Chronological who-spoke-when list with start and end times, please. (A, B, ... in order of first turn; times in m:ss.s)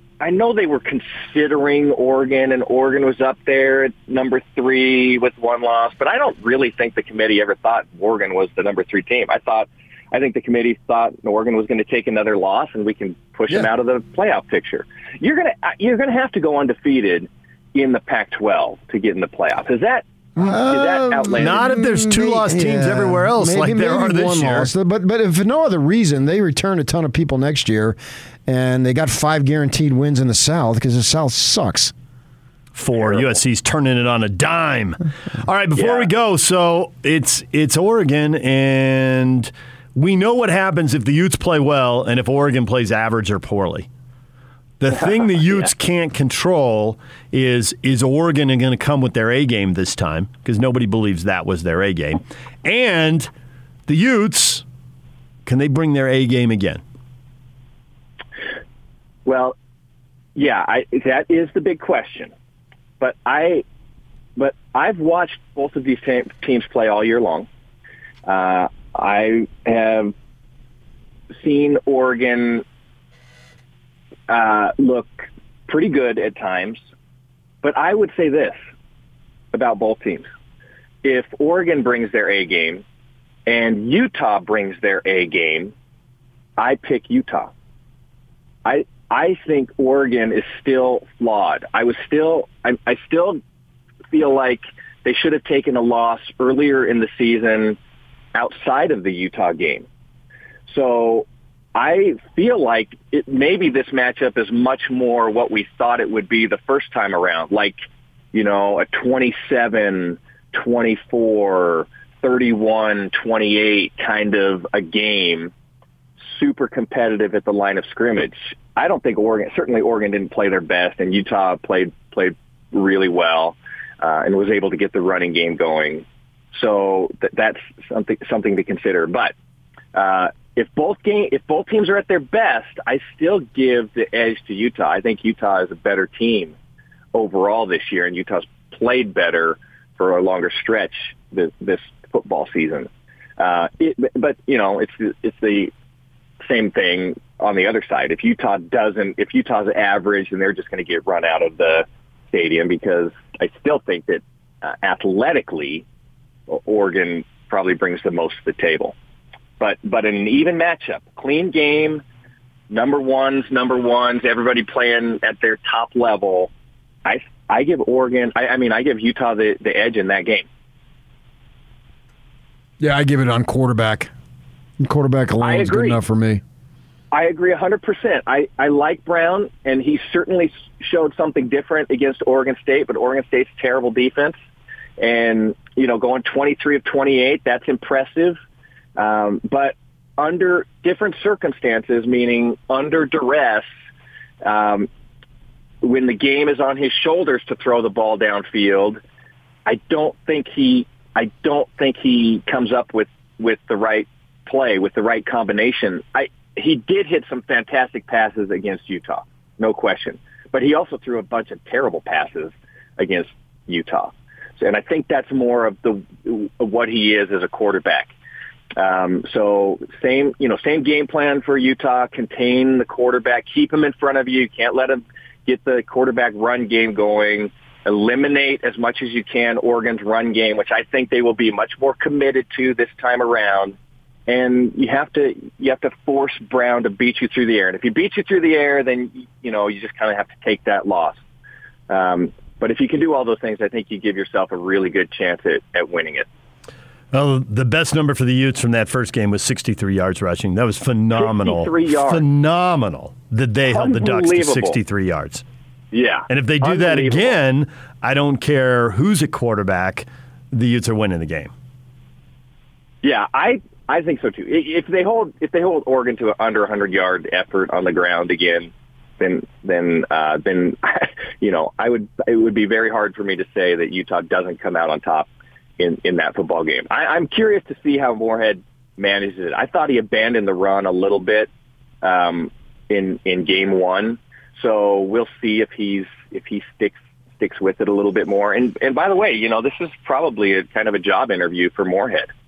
0:00.2-0:21.6 A
0:20.4-0:31.9 B
0:21.3-0:24.7 C
0:32.8-0:43.9 C
0:35.8-0:36.1 A
0:44.8-0:53.3 C
0:53.9-0:54.6 C
0:55.5-0:56.8 C
0:59.3-0:59.6 A
1:00.4-1:02.3 A
1:03.0-1:03.6 A
1:04.4-1:07.5 A
1:08.3-1:10.1 A
1:11.3-1:12.6 A
1:14.3-1:16.8 A
1:17.6-1:18.6 A
1:19.5-1:20.3 A
1:21.0-1:22.8 A
1:23.5-1:25.7 A
1:26.6-1:27.5 A
1:28.6-1:33.4 A
1:34.1-1:37.8 A
1:38.3-1:39.9 A
1:40.7-1:47.7 A
1:48.3-1:55.5 A
1:56.2-2:09.3 A
2:09.9-2:16.6 A
2:17.1-2:25.7 A
2:26.4-2:35.8 A
2:36.5-2:39.0 A
2:39.6-2:42.0 A
2:42.7-2:46.5 A
2:47.0-2:50.5 A
2:52.8-2:54.1 B
2:54.8-2:56.4 B
2:55.4-2:56.0 A
2:57.1-3:04.4 A
3:05.0-3:08.4 A
3:09.0-3:13.7 A
3:14.4-3:14.9 A
3:15.8-3:19.0 A
3:19.7-3:38.1 A
3:38.8-3:53.8 A
3:54.3-4:01.2 A
4:01.9-4:06.3 A
4:07.1-4:15.4 C
4:11.2-4:12.2 A
4:13.7-4:14.8 A
4:15.9-4:17.4 A
4:16.3-4:21.5 C
4:23.0-4:41.5 A
4:42.0-4:52.3 A